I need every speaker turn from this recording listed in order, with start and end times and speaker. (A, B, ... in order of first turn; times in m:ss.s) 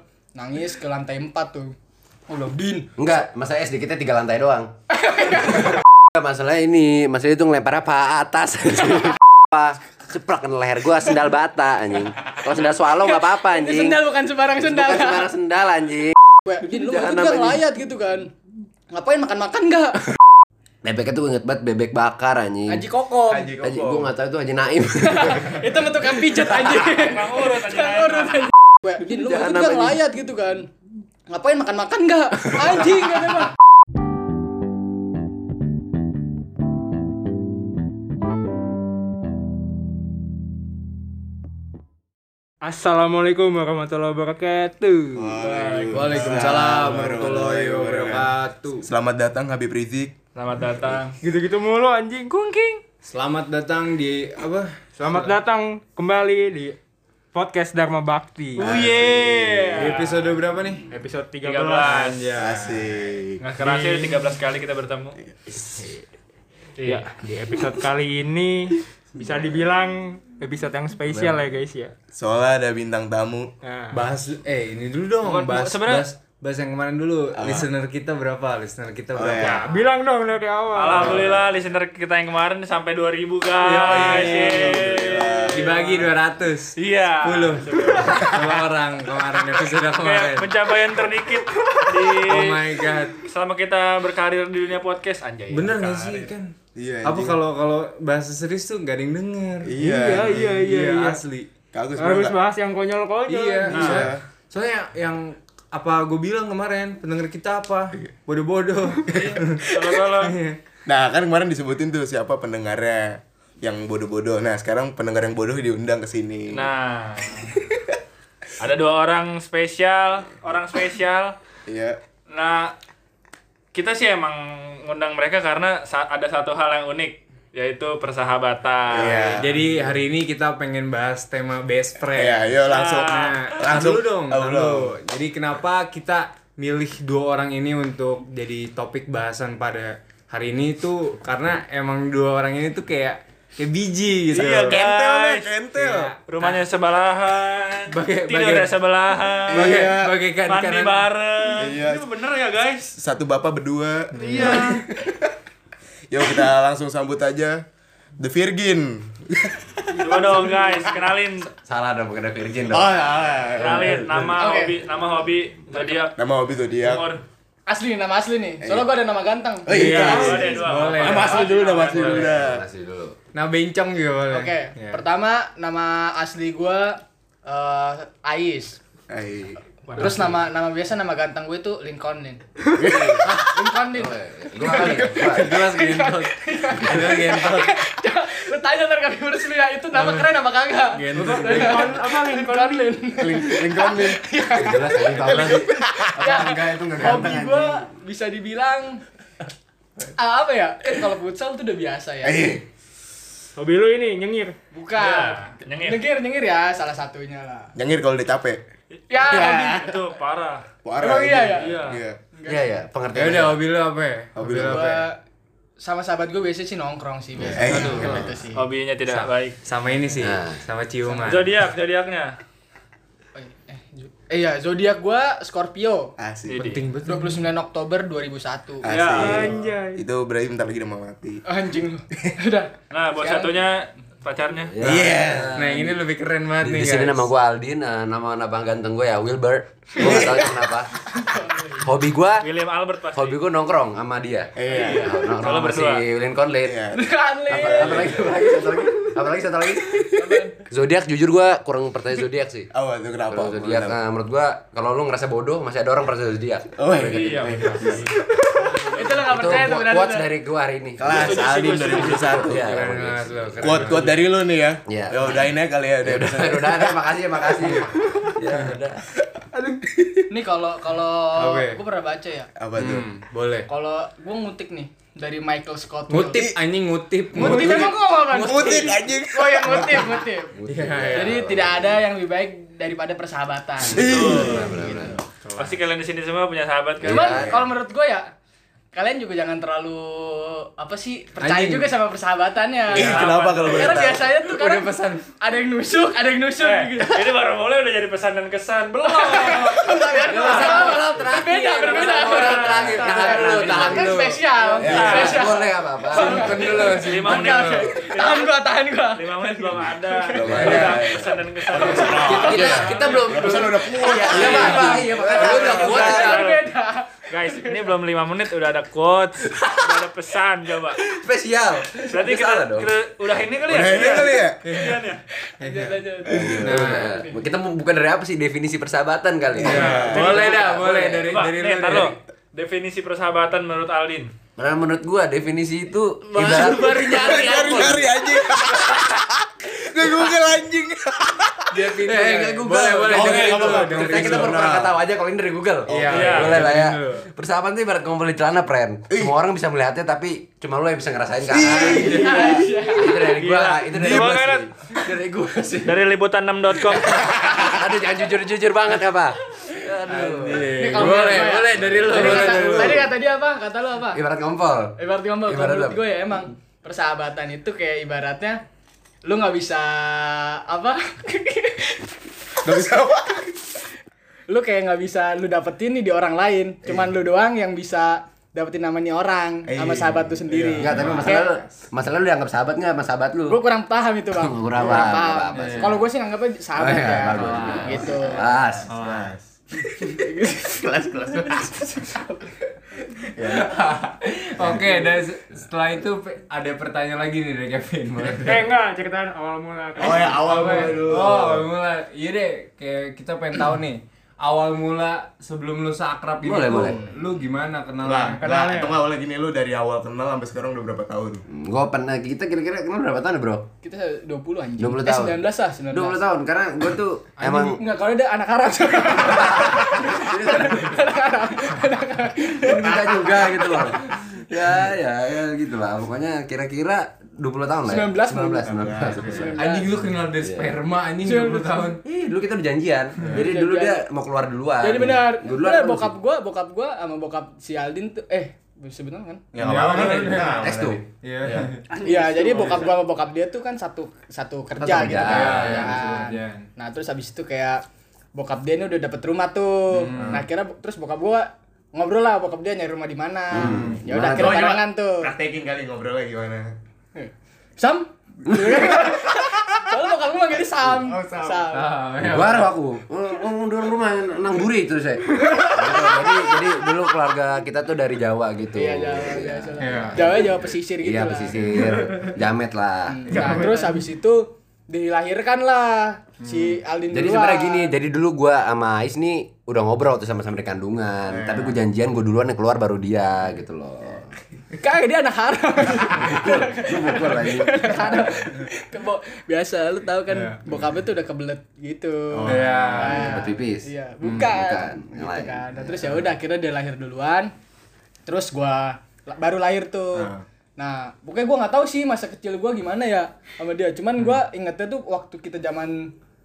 0:00.4-0:01.8 A
0:02.3-0:02.9 A
0:03.0-0:04.7 B
0:05.0-0:05.7 A
0:05.3-0:17.6 B
0:13.0-0:15.3 A
0:16.4-0:18.3 A
0:18.9-0:20.0 A
0:20.8-0:22.9 B
0:22.7-0:23.5 A
0:23.3-0:24.1 C
0:23.6-0:26.7 B
0:25.2-0:30.7 A
0:26.8-0:28.5 D
0:29.0-0:30.0 B
0:31.3-0:33.5 A
0:42.6-0:46.2 E
0:45.2-0:48.3 C
0:45.4-0:46.3 D
0:45.9-0:48.9 F
0:48.8-0:50.1 C
0:50.4-0:51.2 D
0:51.2-0:52.8 E
0:53.0-0:55.3 F
0:55.0-0:56.8 E
0:57.3-0:59.9 E
0:58.6-1:00.4 D
0:58.6-0:59.7 C
0:59.8-1:00.9 F
1:00.9-1:02.6 E
1:01.4-1:02.3 D
1:02.4-1:02.8 F
1:02.4-1:03.4 C
1:03.4-1:05.2 D
1:05.6-1:06.0 F
1:06.8-1:11.9 E
1:06.8-1:07.1 D
1:12.1-1:13.5 C
1:13.6-1:14.0 E
1:13.9-1:19.6 F
1:15.5-1:16.1 D
1:17.4-1:17.7 C
1:19.1-1:19.7 C
1:19.4-1:21.3 E
1:20.7-1:25.7 D
1:20.9-1:21.5 C
1:23.6-1:24.7 F
1:23.8-1:26.0 C
1:25.5-1:30.6 F
1:26.8-1:28.4 D
1:27.9-1:28.5 C
1:29.9-1:36.3 D
1:32.1-1:33.3 F
1:35.5-1:36.5 F
1:36.7-1:37.4 C
1:37.0-1:39.8 F
1:39.6-1:40.7 C
1:39.8-1:41.2 E
1:40.6-1:41.5 F
1:41.7-1:42.4 C
1:42.0-1:44.0 E
1:43.2-1:50.6 F
1:43.7-1:44.1 D
1:43.7-1:44.2 C
1:49.1-1:50.0 C
1:49.1-1:50.4 D
1:50.8-1:56.7 C
1:56.5-1:57.5 D
1:58.6-2:01.4 D
2:01.7-2:02.0 C
2:02.3-2:02.7 D
2:03.7-2:09.4 D
2:08.9-2:09.7 C
2:09.4-2:24.8 F
2:12.1-2:15.0 C
2:12.7-2:13.5 D
2:24.3-2:25.5 D
2:24.4-2:26.1 C
2:25.7-2:26.6 F
2:26.3-2:29.9 D
2:27.9-2:28.7 F
2:29.5-2:30.1 C
2:29.5-2:31.1 F
2:30.4-2:32.9 D
2:31.6-2:32.0 C
2:33.0-2:35.3 C
2:34.2-2:34.8 D
2:36.1-2:37.6 C
2:38.2-2:40.5 C
2:40.0-2:41.5 D
2:40.1-2:40.8 A
2:41.6-2:43.7 B
2:42.7-2:44.4 C
2:43.6-2:46.2 D
2:44.3-2:44.8 A
2:46.1-2:47.0 C
2:46.8-2:47.2 D
2:47.7-2:50.5 A
2:48.6-2:48.9 C
2:49.7-2:52.6 C
2:49.7-2:52.4 D
2:49.8-2:51.6 F
2:52.0-2:53.2 B
2:53.3-2:55.0 F
2:54.3-2:58.8 A
2:59.1-2:59.6 C
3:00.0-3:02.4 A
3:02.7-3:03.2 C
3:02.8-3:03.3 B
3:03.2-3:15.6 A
3:03.9-3:05.6 B
3:04.7-3:05.5 C
3:05.3-3:07.6 F
3:07.3-3:07.6 C
3:10.0-3:10.3 F
3:10.9-3:11.9 F
3:11.1-3:11.5 C
3:11.1-3:13.1 E
3:13.2-3:14.2 C
3:14.5-3:17.8 B
3:15.1-3:17.4 C
3:16.2-3:19.0 A
3:16.2-3:17.3 F
3:20.1-3:22.5 A
3:22.2-3:22.6 C
3:23.6-3:24.6 E
3:24.7-3:27.7 A
3:25.0-3:26.0 D
3:27.8-3:28.6 C
3:29.1-3:30.0 A
3:29.1-3:30.6 D
3:30.8-3:32.2 C
3:31.0-3:32.8 A
3:31.6-3:32.0 D
3:32.4-3:33.6 B
3:33.1-3:35.0 F
3:34.4-3:35.0 C
3:34.5-3:35.2 A
3:35.8-3:38.6 A
3:37.6-3:38.3 C
3:37.6-3:38.2 F
3:38.5-3:39.6 D
3:39.1-3:41.6 F
3:40.2-3:40.6 B
3:41.2-3:42.4 D
3:43.4-3:46.1 A
3:46.2-3:46.7 C
3:46.5-3:46.8 D
3:46.6-3:47.5 F
3:47.0-3:48.9 A
3:48.8-3:51.4 C
3:48.9-3:49.5 D
3:48.9-3:50.0 E
3:51.4-3:53.6 A
3:52.9-3:54.8 D
3:54.7-3:56.0 B
3:54.8-3:55.5 C
3:55.5-3:57.2 F
3:56.6-4:00.9 B
4:00.0-4:00.3 A
4:00.0-4:00.6 C
4:01.1-4:01.8 A
4:01.8-4:02.5 B
4:02.4-4:03.4 D
4:03.1-4:06.9 B
4:04.6-4:05.1 C
4:04.7-4:06.0 D
4:06.6-4:08.3 C
4:06.9-4:08.8 A
4:07.5-4:12.7 B
4:10.2-4:10.6 A
4:12.7-4:14.0 C
4:13.3-4:16.8 B
4:16.8-4:18.6 C
4:16.9-4:19.6 D
4:18.8-4:20.3 A
4:19.2-4:21.4 B
4:21.0-4:22.6 C
4:21.1-4:22.3 D
4:21.2-4:22.2 A
4:22.3-4:24.0 B
4:22.5-4:24.1 F
4:23.6-4:27.8 C
4:24.9-4:29.0 B
4:29.6-4:30.2 C
4:30.3-4:32.5 A
4:31.4-4:31.8 F
4:32.6-4:33.1 C
4:32.8-4:33.7 F
4:33.7-4:36.5 A
4:36.1-4:38.1 F
4:36.4-4:36.6 C
4:37.3-4:40.6 A
4:37.4-4:40.2 C
4:38.3-4:38.9 B
4:40.5-4:42.0 B
4:40.7-4:41.5 F
4:41.1-4:45.1 A
4:43.9-4:45.2 B
4:43.9-4:44.8 C
4:43.9-4:44.6 D
4:44.8-4:45.8 F
4:45.6-4:47.4 D
4:47.0-4:47.7 B
4:47.0-4:48.3 A
4:48.9-4:57.3 A
4:51.4-4:51.9 F
4:52.9-4:54.2 D
4:52.9-4:54.3 C
4:54.3-4:55.3 F
4:56.6-5:00.9 D
4:59.0-5:10.8 A
5:00.2-5:06.6 B
5:00.4-5:04.5 F
5:02.3-5:02.9 D
5:04.8-5:05.4 C
5:04.8-5:05.5 D
5:06.1-5:08.0 F
5:06.1-5:16.6 D
5:10.3-5:16.0 C
5:10.5-5:10.9 B
5:10.5-5:11.0 F
5:11.8-5:16.5 B
5:11.8-5:12.9 A
5:13.4-5:17.8 A
5:17.3-5:21.0 D
5:19.5-5:20.0 B
5:21.0-5:22.9 B
5:22.1-5:25.2 D
5:23.6-5:24.6 C
5:24.6-5:25.0 F
5:25.5-5:27.4 A
5:25.6-5:27.2 F
5:26.2-5:26.9 C
5:26.3-5:31.4 B
5:29.6-5:30.4 C
5:29.6-5:32.2 F
5:29.7-5:30.7 D
5:31.2-5:34.3 D
5:34.6-5:38.2 B
5:36.4-5:44.9 C
5:36.4-5:37.8 F
5:38.8-5:39.2 B
5:41.7-5:44.8 F
5:42.1-5:56.1 B
5:45.9-5:47.3 F
5:45.9-5:46.6 C
5:46.1-5:46.6 D
5:51.5-5:52.8 C
5:51.9-5:52.4 F
5:52.0-5:53.3 A
5:53.2-5:54.6 D
5:53.9-5:54.6 C
5:55.8-5:57.3 D
5:56.9-6:03.1 B
6:00.0-6:03.0 F
6:00.7-6:04.2 A
6:04.1-6:06.0 B
6:05.0-6:08.6 A
6:09.2-6:13.0 A
6:12.6-6:13.5 C
6:14.5-6:21.6 A
6:16.8-6:17.1 C
6:19.7-6:21.6 C
6:20.8-6:23.6 B
6:20.9-6:21.2 F
6:23.5-6:28.4 A
6:24.3-6:26.0 B
6:25.5-6:26.0 F
6:26.8-6:28.9 B
6:27.3-6:28.0 F
6:28.3-6:32.0 C
6:28.9-6:29.3 F
6:30.0-6:30.9 A
6:33.3-6:33.8 C
6:33.4-6:38.7 F
6:38.4-6:40.4 E
6:40.0-6:41.7 C
6:40.4-6:48.4 F
6:46.4-6:47.0 B
6:46.7-6:47.1 C
6:48.0-6:51.4 C
6:48.4-6:49.0 E
6:51.5-6:53.7 B
6:53.8-6:56.2 A
6:54.8-6:57.8 B
6:57.4-7:03.9 A
6:59.1-7:01.1 B
7:02.4-7:09.6 B
7:07.8-7:10.0 A
7:08.6-7:09.6 C
7:09.6-7:12.0 F
7:10.4-7:10.8 B
7:11.2-7:11.9 A
7:12.0-7:16.1 B
7:13.2-7:14.0 A
7:14.8-7:19.4 A
7:19.5-7:22.9 C
7:19.6-7:22.0 F
7:20.5-7:21.0 B
7:22.0-7:27.8 A
7:24.8-7:25.9 B
7:25.1-7:26.6 F
7:28.3-7:35.3 A
7:29.9-7:30.5 F
7:33.5-7:34.8 B
7:33.6-7:34.0 F
7:34.2-7:36.7 C
7:37.2-7:42.0 A
7:38.5-7:38.8 B
7:38.9-7:39.7 C
7:40.9-7:41.7 C
7:41.7-7:42.7 F
7:42.2-7:53.6 B
7:48.8-7:51.9 A
7:49.8-7:50.3 F
7:53.1-7:57.9 A
7:53.4-7:53.6 F
7:56.4-7:56.7 F
7:57.1-8:04.3 B
8:01.3-8:01.8 C
8:04.8-8:17.5 A
8:06.2-8:08.3 B
8:10.3-8:10.6 F
8:12.3-8:13.0 C
8:12.4-8:13.4 F
8:13.0-8:16.2 B
8:18.2-8:26.1 A
8:20.2-8:20.4 C